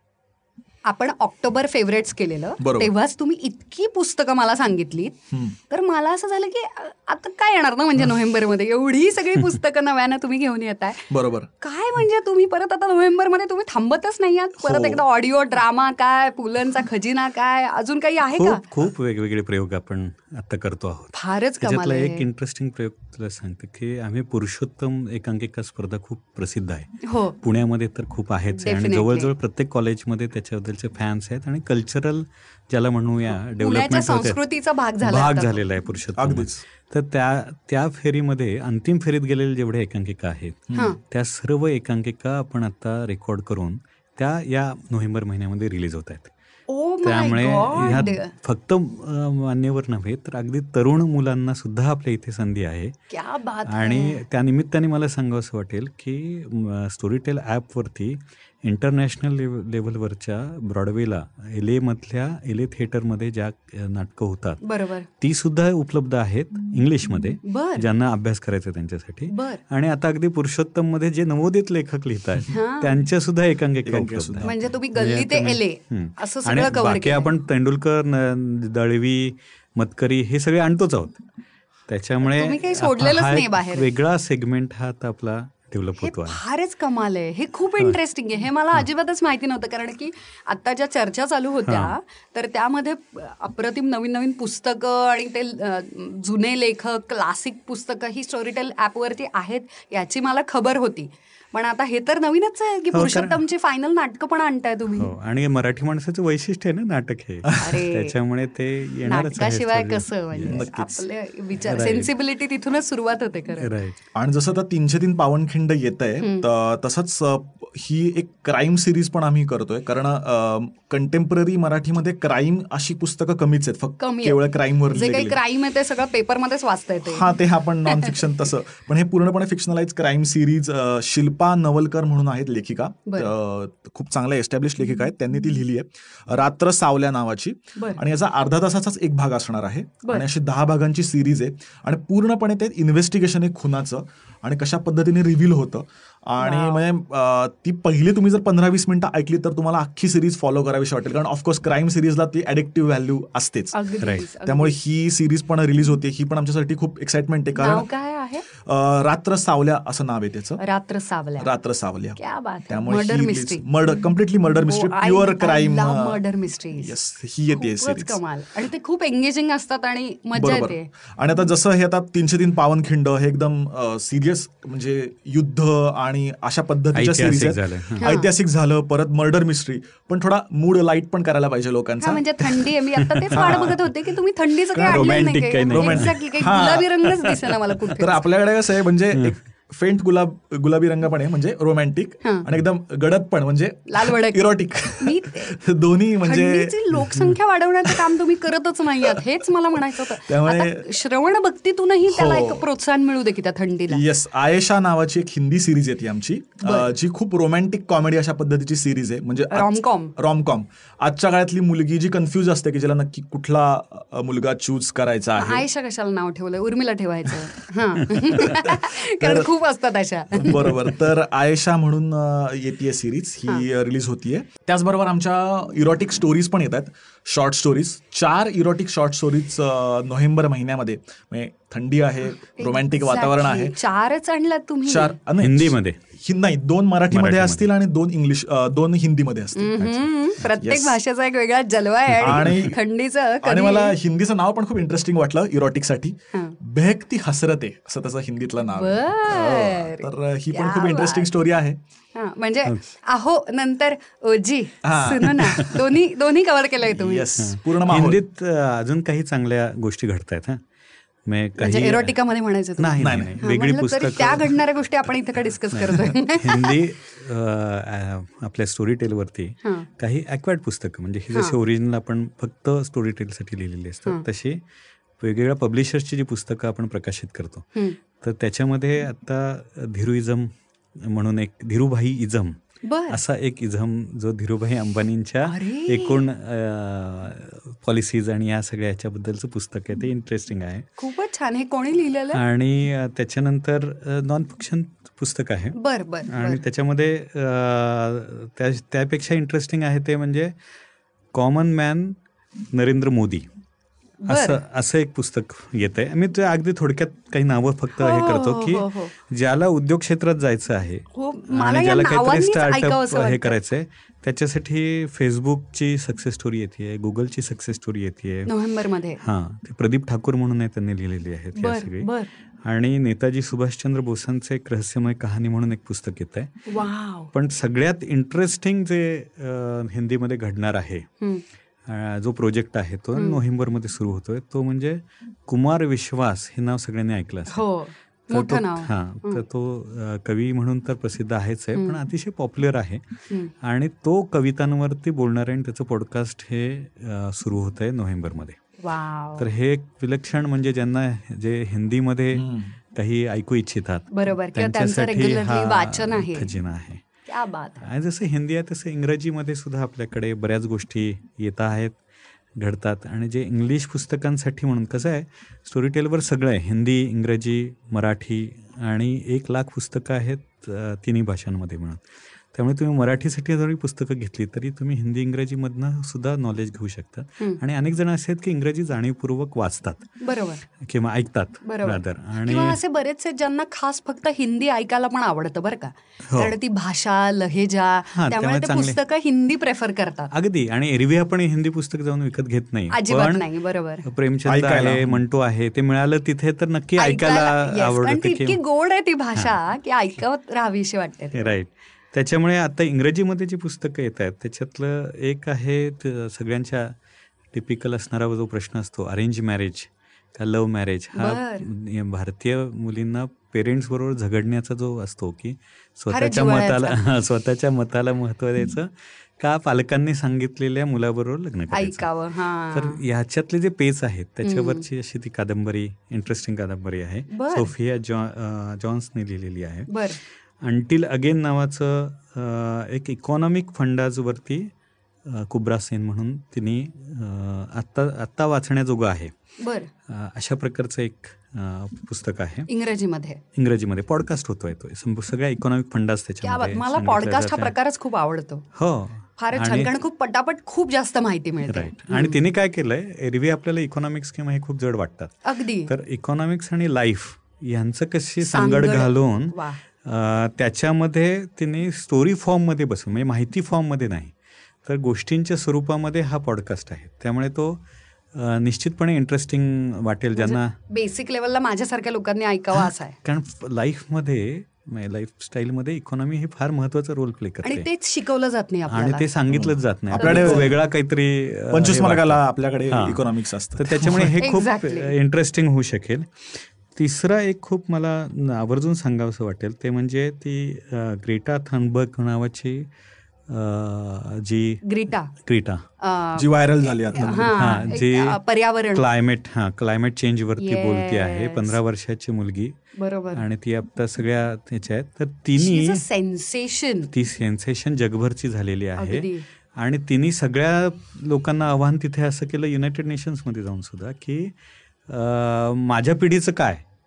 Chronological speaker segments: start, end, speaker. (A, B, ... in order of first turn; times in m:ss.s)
0:00.9-0:18.6 A
0:02.6-0:02.9 B
0:11.1-0:11.5 B
0:14.6-0:15.0 B
0:18.4-0:34.4 C
0:21.1-0:22.2 A
0:27.0-0:27.4 A
0:28.6-0:29.3 A
0:33.3-0:35.6 A
0:35.0-0:46.3 C
0:36.2-0:36.6 B
0:46.7-0:48.3 A
0:47.0-0:53.0 C
0:53.1-0:54.2 A
0:53.7-1:04.6 C
1:04.6-1:05.1 A
1:05.2-1:21.2 C
1:07.4-1:07.9 A
1:09.3-1:09.6 A
1:12.5-1:13.0 A
1:13.8-1:14.5 B
1:14.4-1:17.3 A
1:21.9-1:26.4 C
1:22.2-1:23.9 A
1:26.0-1:45.1 A
1:31.6-1:32.0 C
1:42.9-1:43.4 C
1:45.0-1:50.6 C
1:47.6-1:48.2 A
1:49.1-1:53.7 A
1:50.5-1:51.1 B
1:51.6-1:52.1 C
1:53.6-1:54.0 C
1:54.2-2:05.4 B
1:56.2-1:56.5 A
2:04.0-2:08.5 A
2:07.0-2:37.9 B
2:17.8-2:18.0 A
2:26.4-2:26.8 A
2:33.7-2:34.8 A
2:34.0-2:34.3 C
2:37.6-2:38.4 A
2:38.5-2:40.6 B
2:40.6-2:41.5 A
2:41.4-2:46.2 B
2:42.2-2:43.7 A
2:44.6-2:47.0 A
2:46.8-2:48.2 B
2:47.5-2:50.9 A
2:50.4-3:02.8 B
2:56.9-2:58.2 C
2:58.0-2:58.3 A
3:02.0-3:08.2 A
3:03.0-3:03.8 C
3:03.3-3:03.8 B
3:04.7-3:16.8 B
3:04.8-3:06.2 C
3:13.9-3:15.6 A
3:16.2-3:24.0 A
3:19.9-3:20.9 B
3:22.1-3:22.7 B
3:23.9-3:35.7 B
3:26.6-3:26.9 A
3:29.5-3:30.1 A
3:35.4-3:40.9 A
3:38.3-3:39.5 B
3:40.3-3:53.8 B
3:52.4-3:55.2 A
3:54.9-4:01.0 B
3:55.4-3:56.0 C
3:57.1-3:57.7 C
3:59.6-4:04.0 A
4:02.2-4:02.8 B
4:03.4-4:11.8 B
4:08.7-4:11.3 A
4:12.2-4:17.3 A
4:14.8-4:15.8 B
4:16.8-4:18.2 B
4:17.4-4:20.6 C
4:21.2-4:22.2 C
4:21.6-4:26.8 A
4:22.8-4:24.6 C
4:23.0-4:23.4 B
4:25.7-4:34.6 C
4:35.2-4:42.6 C
4:42.8-4:43.2 A
4:43.1-4:50.9 C
4:45.4-4:46.2 A
4:51.0-4:52.4 A
4:52.3-5:00.6 C
4:55.8-4:56.6 A
5:01.3-5:02.2 C
5:02.7-5:03.5 C
5:04.2-5:04.6 A
5:04.3-5:18.6 C
5:08.0-5:09.1 A
5:11.1-5:13.6 A
5:18.5-5:19.2 A
5:19.2-5:22.1 C
5:21.6-5:22.3 A
5:22.6-5:26.7 C
5:26.7-5:27.3 A
5:27.3-5:31.1 C
5:31.9-5:37.7 C
5:33.2-5:33.4 A
5:37.5-5:39.4 A
5:38.3-5:48.6 C
5:41.8-5:42.0 A
5:48.8-5:49.5 A
5:49.4-5:57.0 C
5:52.3-5:52.7 B
5:54.1-5:56.5 A
5:57.3-5:57.8 A
5:57.8-6:02.0 C
6:02.6-6:22.8 C
6:20.2-6:20.6 A
6:21.6-6:30.3 A
6:26.2-6:26.5 C
6:28.1-6:29.0 C
6:30.3-6:33.5 C
6:32.9-6:34.0 A
6:34.0-6:38.6 C
6:34.4-6:35.2 B
6:37.0-6:41.6 A
6:41.3-6:47.0 C
6:47.5-7:14.7 C
6:51.2-6:51.7 A
6:56.1-6:57.0 A
7:01.7-7:03.0 A
7:04.4-7:04.8 A
7:07.3-7:07.7 A
7:09.9-7:10.2 A
7:15.2-7:19.3 C
7:19.6-7:19.9 A
7:20.1-7:22.7 C
7:22.7-7:23.4 A
7:23.6-7:27.7 C
7:26.4-7:28.7 A
7:28.8-7:29.9 C
7:29.4-7:32.4 A
7:31.7-7:47.8 C
7:35.4-7:35.9 A
7:38.4-7:39.8 A
7:48.3-7:50.8 C
7:50.4-7:53.2 A
7:52.7-7:57.9 C
7:57.6-7:59.3 A
7:58.9-8:03.2 C
7:59.5-8:00.8 B
8:00.2-8:00.7 A
8:01.7-8:04.4 B
8:03.8-8:12.9 C
8:04.4-8:05.1 A
8:13.5-8:15.9 C
8:14.8-8:15.3 A
8:16.0-8:19.0 A
8:16.4-8:17.6 B
8:17.4-8:18.4 C
8:18.9-8:22.8 C
8:20.6-8:21.8 A
8:23.0-8:23.4 A
8:23.3-8:26.0 C
8:25.6-8:27.1 A
8:27.1-8:34.6 C
8:29.0-8:29.4 A
8:35.1-8:36.8 C